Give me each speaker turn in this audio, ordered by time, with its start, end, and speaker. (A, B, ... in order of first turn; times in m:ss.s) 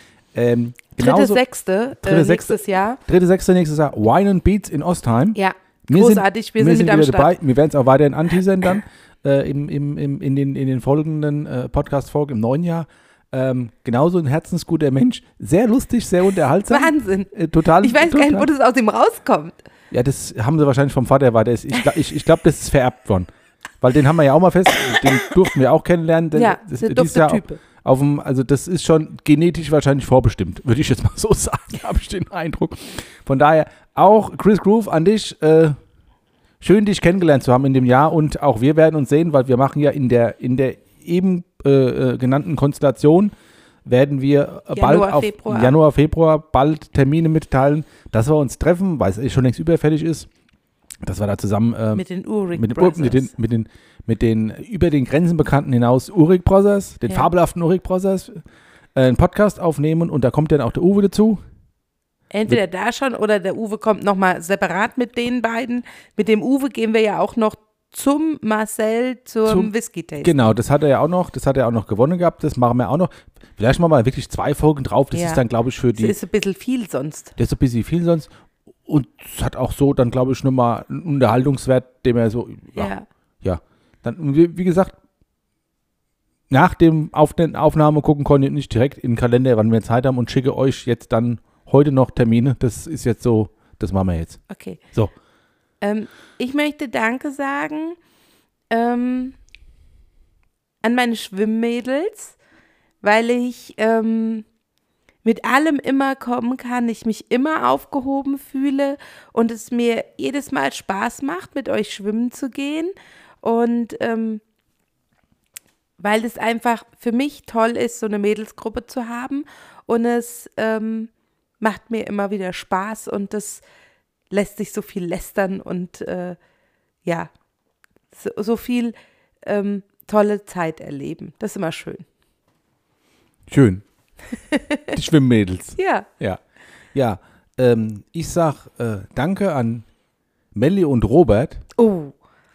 0:00.3-0:01.4 A
0:01.0-0:03.0 B
0:02.0-0:18.5 A
0:05.3-0:07.3 B
0:16.7-0:19.6 B
0:19.9-0:23.3 A
0:23.8-0:35.7 A
0:26.3-0:27.6 B
0:36.6-0:43.3 A
0:43.8-0:50.3 A
0:44.7-0:45.7 B
0:51.0-0:58.4 A
0:51.9-0:53.3 B
0:57.0-0:57.3 B
0:58.9-1:01.4 A
1:02.3-1:10.4 B
1:09.4-1:16.2 A
1:15.1-1:15.4 B
1:15.9-1:17.4 B
1:17.4-1:18.3 A
1:18.8-1:25.0 A
1:22.7-1:23.0 B
1:26.5-1:34.4 A
1:34.5-1:34.8 B
1:35.8-1:38.0 B
1:38.7-1:39.4 B
1:40.8-1:42.4 B
1:43.0-1:44.4 B
1:45.2-1:54.4 B
1:56.0-2:03.6 B
2:04.3-2:06.4 B
2:07.0-2:07.3 B
2:08.1-2:12.0 B
2:13.5-2:13.8 A
2:14.3-2:15.0 B
2:14.9-2:16.4 A
2:15.8-2:16.1 B
2:16.9-2:19.8 A
2:20.5-2:21.6 A
2:21.8-2:22.1 B